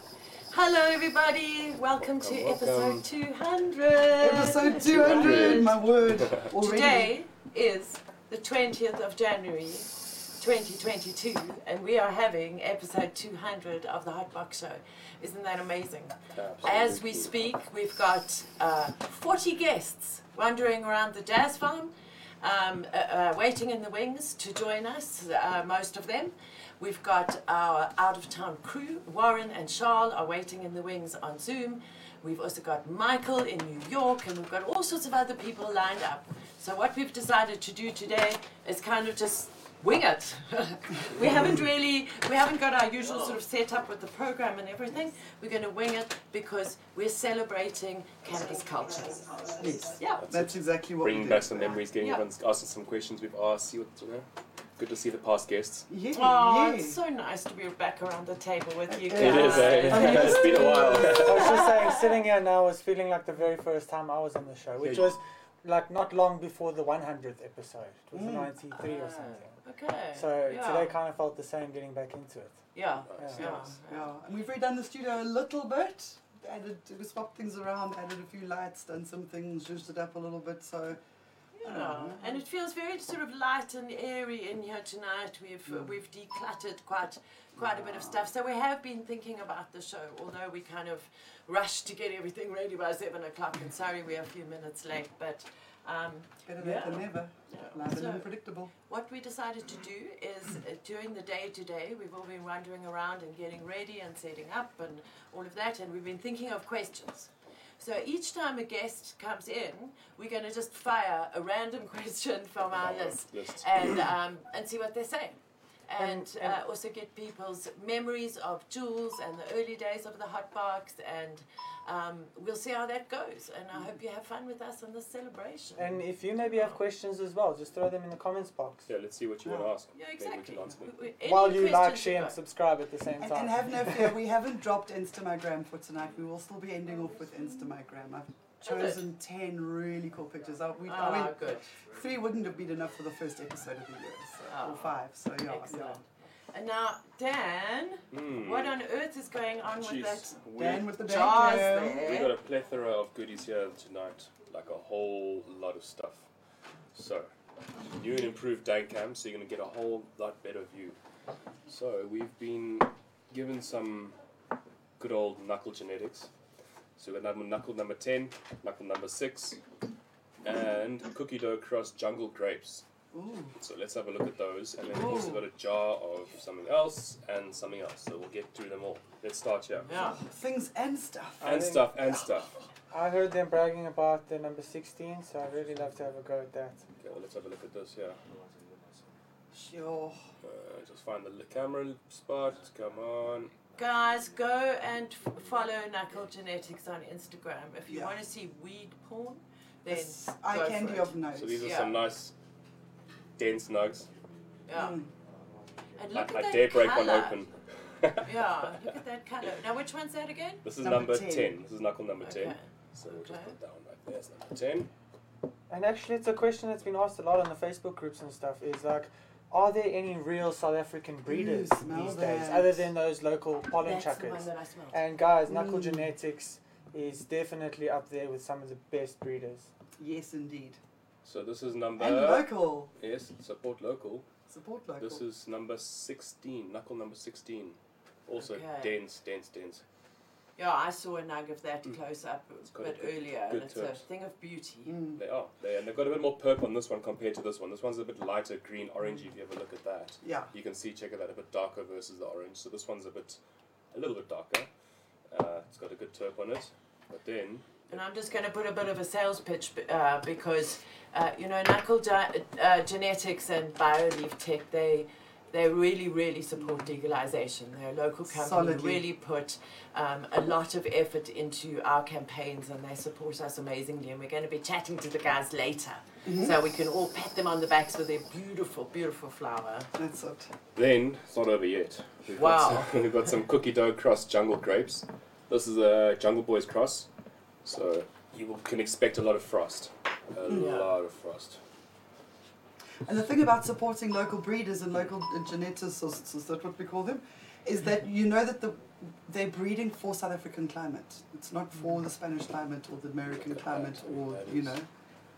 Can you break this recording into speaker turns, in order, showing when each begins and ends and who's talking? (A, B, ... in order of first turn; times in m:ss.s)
0:00.5-0:05.8 A
0:02.0-0:03.0 B
0:04.2-0:07.1 C
0:04.8-0:06.4 B
0:06.6-0:49.4 A
0:16.3-0:17.5 B
0:41.2-0:41.6 C
0:49.6-0:51.8 C
0:50.0-0:50.2 A
0:50.2-0:54.3 B
0:52.0-0:52.2 A
0:54.8-0:55.9 B
0:55.9-0:57.0 C
0:56.2-1:01.7 A
0:58.9-1:01.2 C
0:59.1-1:01.6 B
0:59.9-1:09.6 D
1:04.8-1:05.2 B
1:08.1-1:08.5 C
1:08.7-1:10.9 A
1:10.1-1:12.6 D
1:12.8-1:14.1 A
1:13.1-1:13.4 B
1:13.4-1:21.0 C
1:21.6-2:06.8 A
1:21.6-1:22.4 C
1:27.6-1:28.2 C
1:36.5-1:38.7 C
1:52.7-1:54.0 B
1:56.0-1:56.5 D
2:05.8-2:08.9 D
2:08.9-2:10.9 B
2:09.4-2:09.7 C
2:10.0-2:12.4 A
2:11.2-2:14.2 D
2:13.2-2:26.0 C
2:18.6-2:19.0 A
2:20.8-2:21.7 A
2:24.5-2:24.9 A
2:25.4-2:30.4 A
2:28.1-2:28.8 B
2:29.8-2:31.0 B
2:30.6-2:32.1 C
2:31.0-2:32.3 A
2:32.0-2:36.3 B
2:36.9-2:37.3 B
2:37.9-2:41.0 B
2:41.7-2:44.1 B
2:45.0-2:46.3 B
2:47.0-2:49.6 B
2:50.4-2:52.8 B
2:53.1-2:53.5 C
2:53.6-2:59.9 B
2:54.9-2:55.4 C
2:59.9-3:00.2 A
2:59.9-3:01.6 C
3:01.4-3:02.5 B
3:01.4-3:01.9 D
3:02.9-3:06.8 D
3:07.0-3:08.2 B
3:09.5-3:10.2 C
3:10.4-3:13.5 B
3:13.8-3:22.0 A
3:17.9-3:18.2 C
3:19.9-3:21.7 C
3:21.4-3:22.3 B
3:23.4-3:24.1 B
3:24.7-3:25.0 A
3:24.7-3:25.1 C
3:26.0-3:27.4 A
3:26.1-3:28.3 B
3:28.2-3:30.6 A
3:30.6-3:34.9 B
3:30.8-3:31.5 C
3:32.2-3:33.5 A
3:35.7-3:49.7 D
3:41.3-3:42.9 C
3:43.8-3:45.0 A
3:45.5-3:46.1 C
3:50.0-3:50.8 C
3:51.2-3:54.3 B
3:52.0-3:52.9 C
3:54.5-3:55.2 C
3:55.0-3:59.8 B
3:58.4-3:59.0 A
4:00.6-4:05.0 A
4:02.7-4:04.0 B
4:04.9-4:05.2 C
4:05.2-4:13.4 B
4:10.2-4:10.5 C
4:13.9-4:14.7 B
4:15.3-4:17.6 B
4:17.9-4:39.9 A
4:26.6-4:26.9 C
4:28.3-4:29.0 C
4:36.2-4:36.6 C
4:40.0-4:40.5 C
4:40.8-4:47.1 B
4:42.4-4:42.9 A
4:47.6-4:51.6 B
4:50.5-4:50.8 A
4:53.1-5:04.9 C
5:03.3-5:04.8 B